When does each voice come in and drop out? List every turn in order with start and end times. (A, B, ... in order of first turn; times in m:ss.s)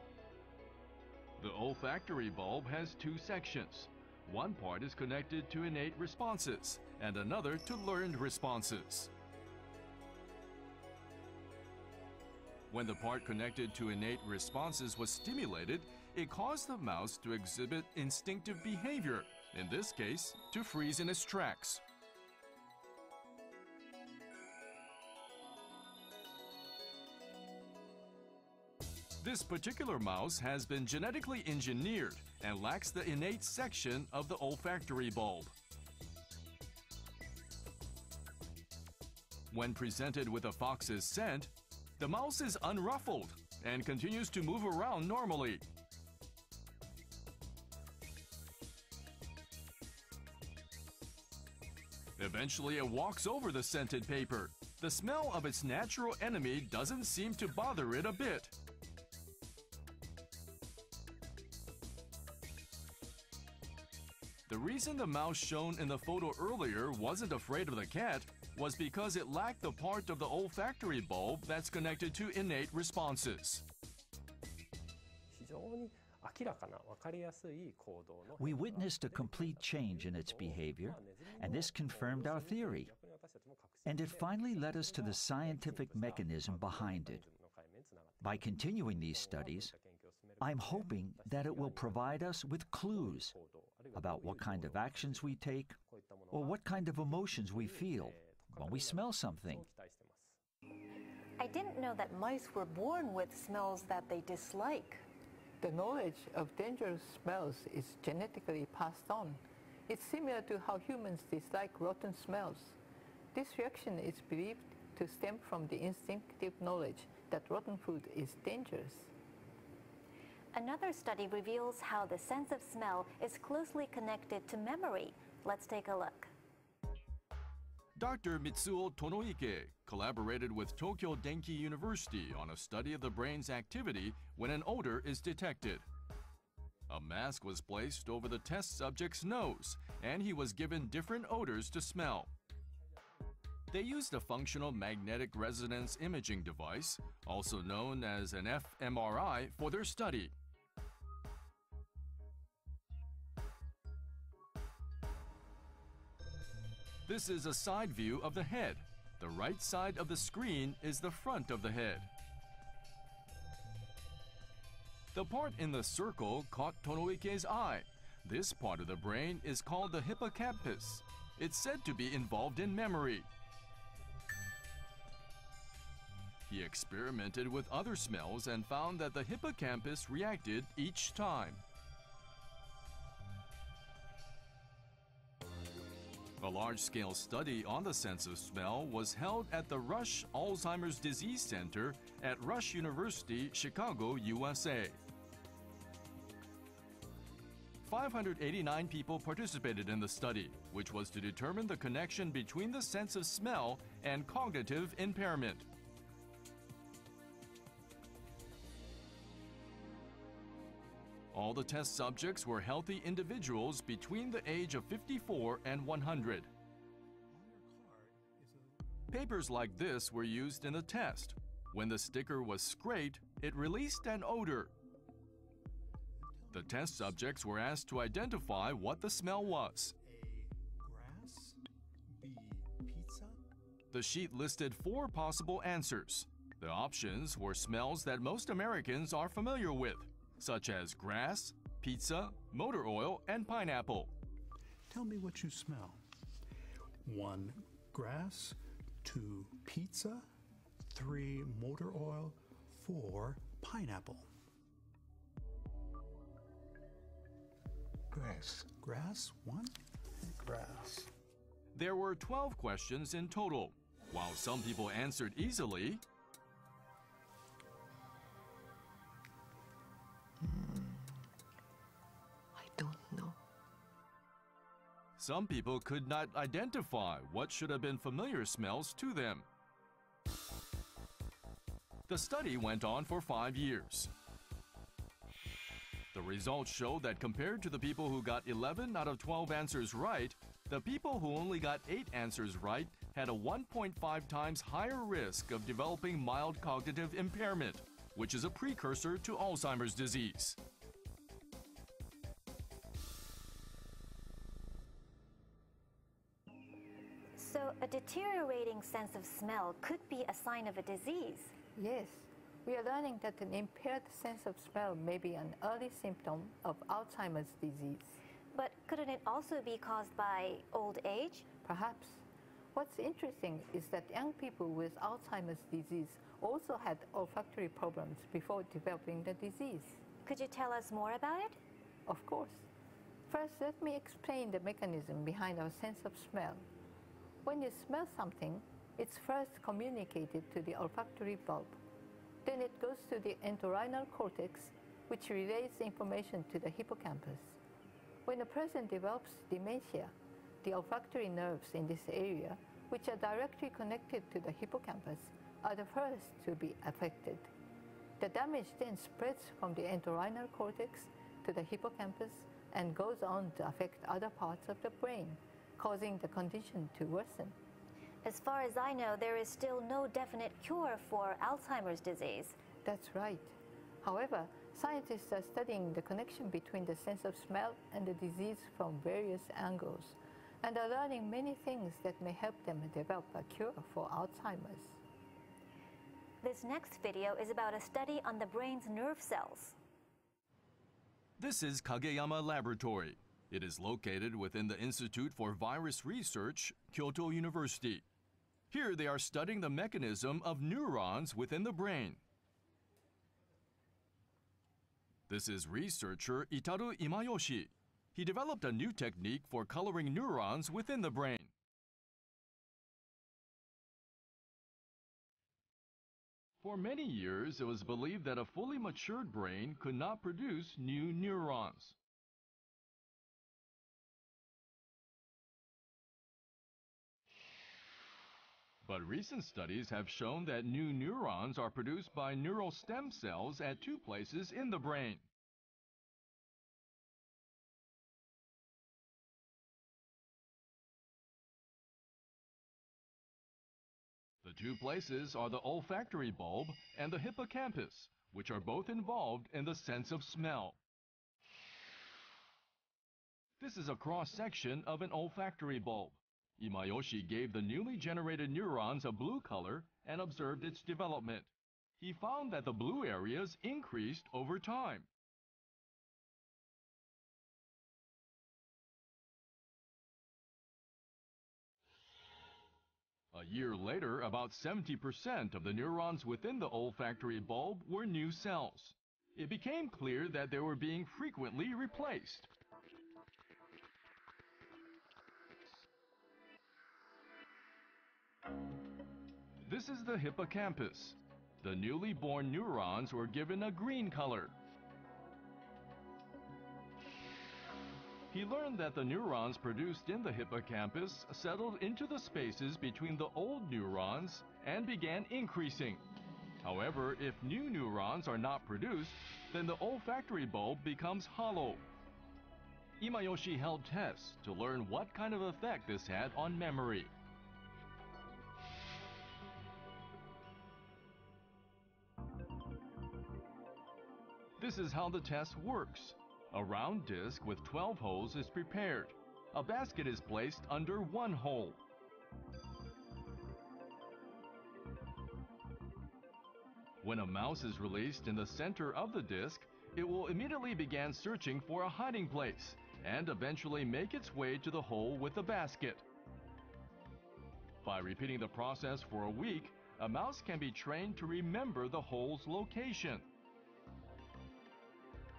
0:01.4-0:09.1 A
0:12.7-0:21.8 A
0:29.2-0:35.5 A
0:39.5-0:45.6 A
0:52.2-0:58.5 A
1:04.5-1:13.6 A
1:18.4-1:23.0 B
1:23.8-1:27.3 B
1:28.2-1:29.7 B
1:30.4-1:33.4 B
1:33.9-1:35.8 B
1:36.3-1:39.7 B
1:41.5-1:45.0 C
1:45.6-1:52.8 D
1:53.3-1:59.1 D
2:00.5-2:06.3 E
2:08.0-2:15.8 A
2:16.9-2:22.3 A
2:23.7-2:30.3 A
2:37.1-2:42.1 A
2:45.1-2:53.3 A
2:56.5-3:01.6 A
3:06.4-3:15.0 A
3:17.8-3:25.7 A
3:31.3-3:36.5 A
3:37.3-3:38.9 F
3:39.1-3:44.7 A
3:46.2-3:47.2 F
3:46.5-3:50.0 A
3:50.0-3:53.4 F
3:53.9-4:04.1 A
4:04.9-4:06.0 F
4:07.0-4:10.3 F
4:10.9-4:14.3 F
4:18.1-4:21.1 F
4:21.7-4:26.0 A
4:30.4-4:31.1 C
4:32.6-4:33.4 C
4:35.2-4:39.5 A
4:42.1-4:44.1 A
4:46.1-5:00.6 A
5:07.4-5:11.5 E
5:11.8-5:18.2 D
5:18.5-5:21.5 E
5:21.6-5:22.2 D
5:22.7-5:30.0 D
5:30.2-5:31.6 E
5:32.1-5:32.7 D
5:33.3-5:36.6 D
5:37.4-5:41.8 D
5:42.4-5:47.6 D
5:48.2-5:57.5 D
5:58.2-6:07.6 D
6:08.2-6:12.6 E
6:12.8-6:25.0 D
6:26.4-6:29.8 E
6:31.4-6:38.0 A
6:38.7-6:42.2 A
6:45.3-6:51.5 A
6:56.6-7:02.0 A
7:08.8-7:15.3 A
7:24.4-7:30.8 A
7:33.6-7:41.5 A
7:42.0-7:45.1 A
7:53.3-8:02.5 A
8:09.6-8:14.6 A
8:18.3-8:26.1 A
8:26.6-8:31.9 A
8:33.0-8:37.1 A
8:44.6-8:51.8 A
8:57.0-9:06.0 A
9:07.8-9:13.3 A